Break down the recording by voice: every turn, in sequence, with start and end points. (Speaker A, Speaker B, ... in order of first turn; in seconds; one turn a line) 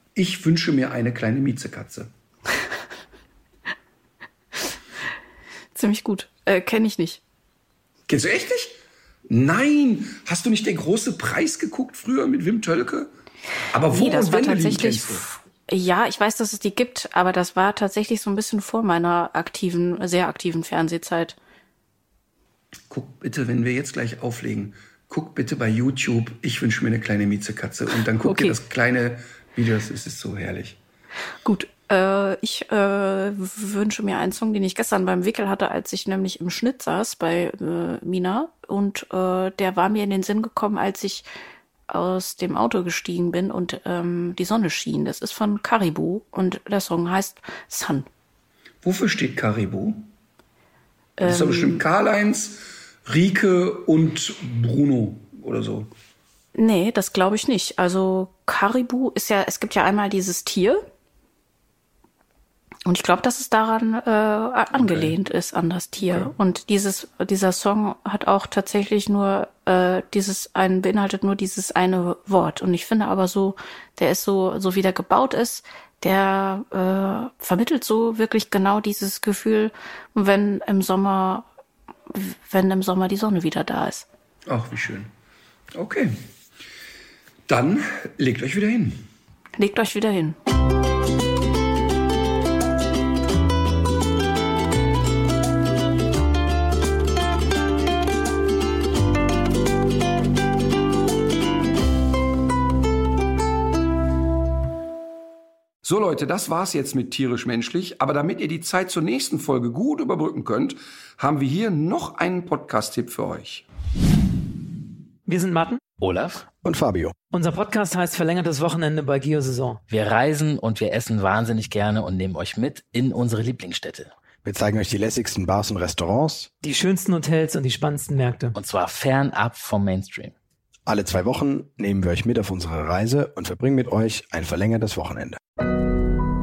Speaker A: 0.1-2.1
Speaker B: 5.8-7.2
Speaker A: 8.1-8.8
Speaker A: 9.3-13.1
Speaker A: 13.7-15.3
Speaker B: 13.9-21.4
Speaker A: 22.9-30.8
Speaker B: 28.2-28.6
Speaker B: 31.4-41.2
Speaker B: 41.9-48.1
Speaker A: 48.8-50.0
Speaker B: 51.2-51.8
Speaker A: 51.2-55.9
Speaker B: 56.6-60.8
Speaker B: 62.9-81.5
Speaker A: 64.7-65.1
Speaker A: 66.1-66.3
Speaker B: 82.1-84.1
Speaker A: 84.5-85.1
Speaker A: 85.7-86.1
Speaker A: 87.5-89.0
Speaker B: 89.6-90.4
Speaker A: 105.8-113.7
Speaker C: 115.3-115.8
Speaker D: 116.0-116.5
Speaker E: 116.6-117.2
Speaker C: 117.3-119.8
Speaker D: 119.9-124.2
Speaker E: 124.4-126.5
Speaker C: 126.6-128.6
Speaker D: 128.6-130.3
Speaker E: 130.9-135.4